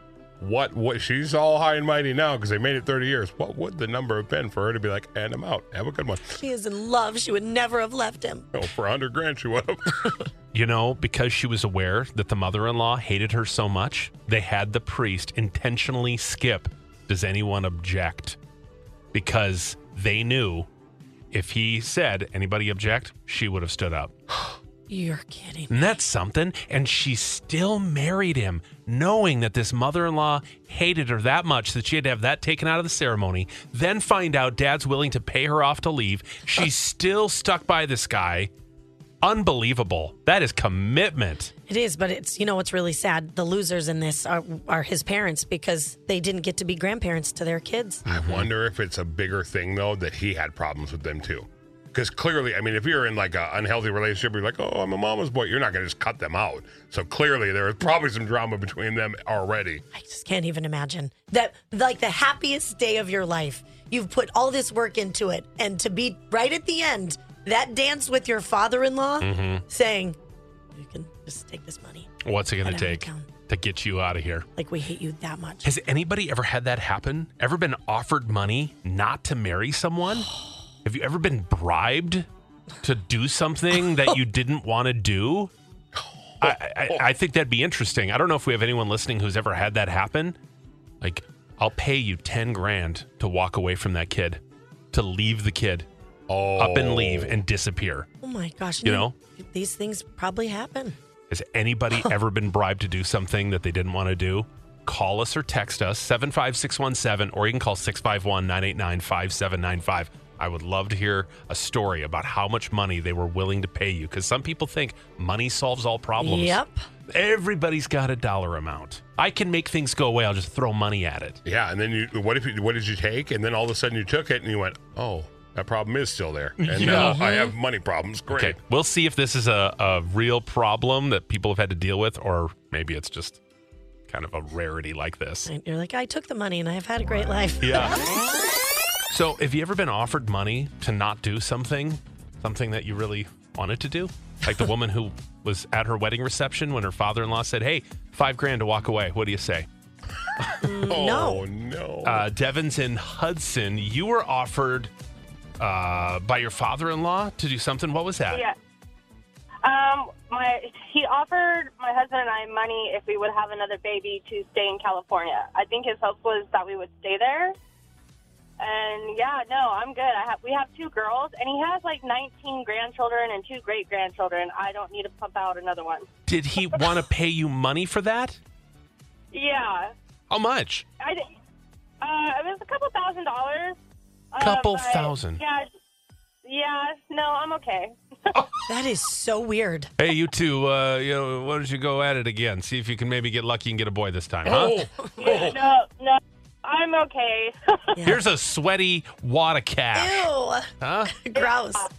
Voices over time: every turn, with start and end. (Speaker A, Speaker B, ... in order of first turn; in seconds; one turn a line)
Speaker A: 0.4-6.4
Speaker B: 6.3-8.5
Speaker A: 8.5-10.2
Speaker C: 10.5-18.4
Speaker C: 19.1-20.7
Speaker C: 21.3-24.1
Speaker B: 24.9-25.8
Speaker C: 25.7-38.5
Speaker C: 39.2-41.5
Speaker B: 41.7-48.0
Speaker C: 48.1-48.5
Speaker A: 48.1-59.8
Speaker B: 59.9-70.2
Speaker C: 69.2-69.6
Speaker B: 70.8-72.1
Speaker C: 72.2-74.5
Speaker B: 72.6-73.3
Speaker B: 74.6-75.7
Speaker C: 75.7-80.3
Speaker C: 80.8-82.3
Speaker C: 82.8-85.5
Speaker A: 86.0-87.1
Speaker C: 86.4-90.4
Speaker C: 91.0-94.4
Speaker C: 94.9-95.9
Speaker A: 96.3-97.4
Speaker C: 96.6-98.1
Speaker B: 98.2-101.0
Speaker C: 98.8-99.2
Speaker C: 101.3-121.4
Speaker B: 116.2-116.8
Speaker A: 121.4-128.6
Speaker C: 126.6-127.2
Speaker B: 126.8-127.5
Speaker C: 128.3-133.4
Speaker C: 134.1-135.5
Speaker B: 135.5-137.8
Speaker C: 137.6-138.0
Speaker C: 139.1-149.7
Speaker B: 150.6-151.4
Speaker A: 150.9-152.3
Speaker C: 152.0-154.9
Speaker C: 155.6-158.4
Speaker D: 158.3-158.6
Speaker D: 159.6-167.6
Speaker D: 168.6-176.1
Speaker C: 176.3-178.4
Speaker D: 176.7-177.0
Speaker D: 179.3-179.9
Speaker C: 180.3-180.8
Speaker D: 181.0-181.2
Speaker D: 182.0-183.8
Speaker D: 184.3-185.7
Speaker C: 184.4-185.4
Speaker D: 186.5-188.4
Speaker B: 188.7-189.9
Speaker C: 190.0-194.8
Speaker A: 194.4-195.6
Speaker D: 195.2-198.1
Speaker C: 198.1-200.3
Speaker B: 199.9-201.9
Speaker C: 200.8-201.2
Speaker D: 201.3-201.9